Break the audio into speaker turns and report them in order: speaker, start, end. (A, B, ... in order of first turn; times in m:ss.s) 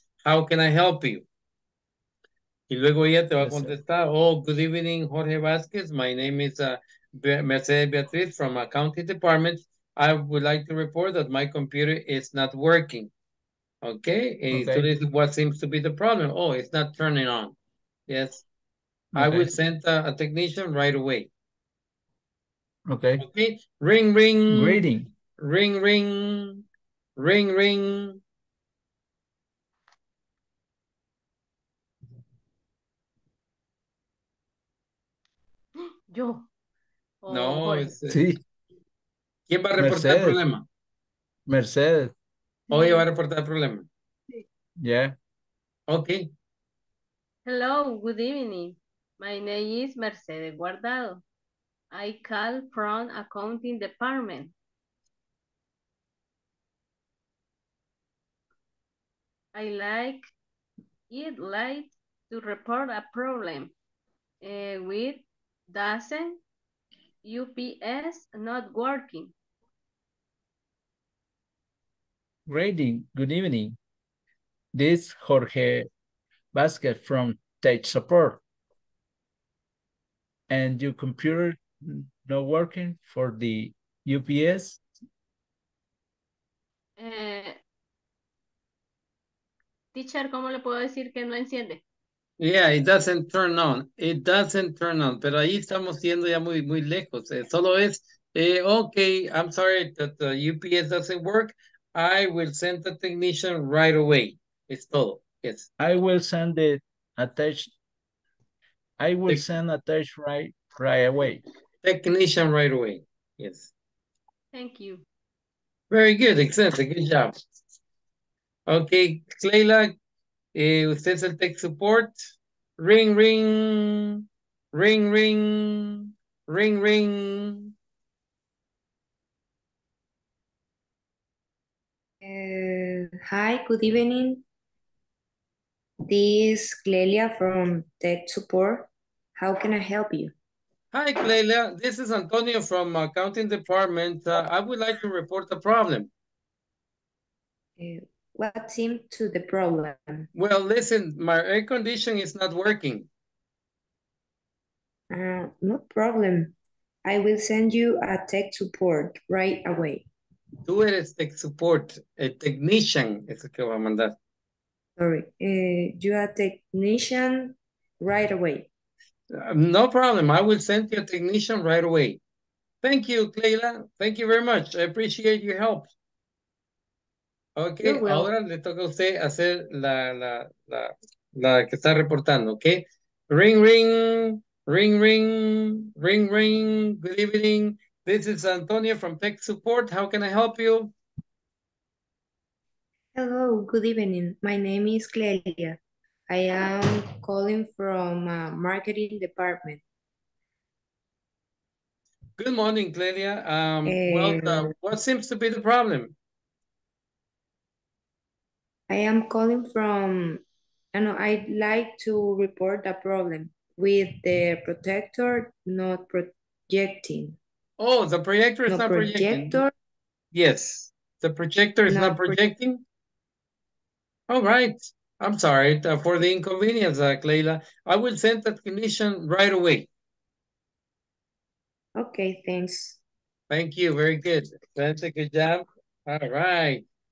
0:00.2-0:01.2 A
0:02.7-0:13.1 A
0:03.4-0:03.8 B
0:13.8-0:17.5 A
0:14.5-0:14.9 B
0:18.1-0:18.4 A
0:19.1-0:19.5 B
0:19.2-0:21.3 A
0:22.9-0:23.3 B
0:23.2-0:26.6 A
0:24.5-0:25.1 B
0:27.2-0:28.2 A
0:36.1-0:36.5 C
0:37.2-0:37.9 C
0:37.3-0:38.2 A
0:38.1-0:38.4 B
0:39.5-0:40.6 A
0:39.8-0:40.4 B
0:41.5-0:42.1 B
0:42.7-0:43.9 A
0:44.8-0:45.2 B
0:45.9-0:46.3 A
0:47.5-0:51.2 C
0:51.9-0:54.5 C
0:59.6-1:00.2 C
1:01.1-1:03.7 C
1:04.4-1:06.4 C
1:07.2-1:09.3 C
1:12.5-1:13.8 B
1:14.8-1:15.9 B
1:16.5-1:18.4 B
1:20.5-1:24.8 B
1:27.0-1:27.6 C
1:29.9-1:31.8 C
1:32.4-1:45.7 A
1:45.8-1:47.7 B
1:49.0-1:51.4 B
1:51.8-1:53.7 A
1:54.5-1:55.0 C
1:55.9-1:57.3 A
1:58.7-2:00.0 A
2:00.6-2:02.2 A
2:02.8-2:07.7 A
2:12.2-2:14.4 D
2:16.1-2:20.3 D
2:20.9-2:26.1 A
2:27.8-2:30.3 D
2:30.4-2:33.1 A
2:35.1-2:40.1 D
2:40.7-2:44.2 A
2:45.0-2:48.7 D
2:49.4-2:52.2 A
2:52.8-2:55.9 A
2:57.6-3:11.0 A
2:57.8-2:58.3 D
3:13.2-3:15.8 D
3:16.3-3:19.8 D
3:22.4-3:26.2 A
3:23.9-3:24.7 D
3:28.9-3:30.4 D
3:30.9-3:37.4 D
3:37.8-3:39.6 A
3:38.7-3:39.7 D
3:40.3-3:42.8 A
3:41.9-3:42.4 D
3:44.3-3:49.9 A
3:52.0-3:53.0 D
3:53.5-3:56.8 A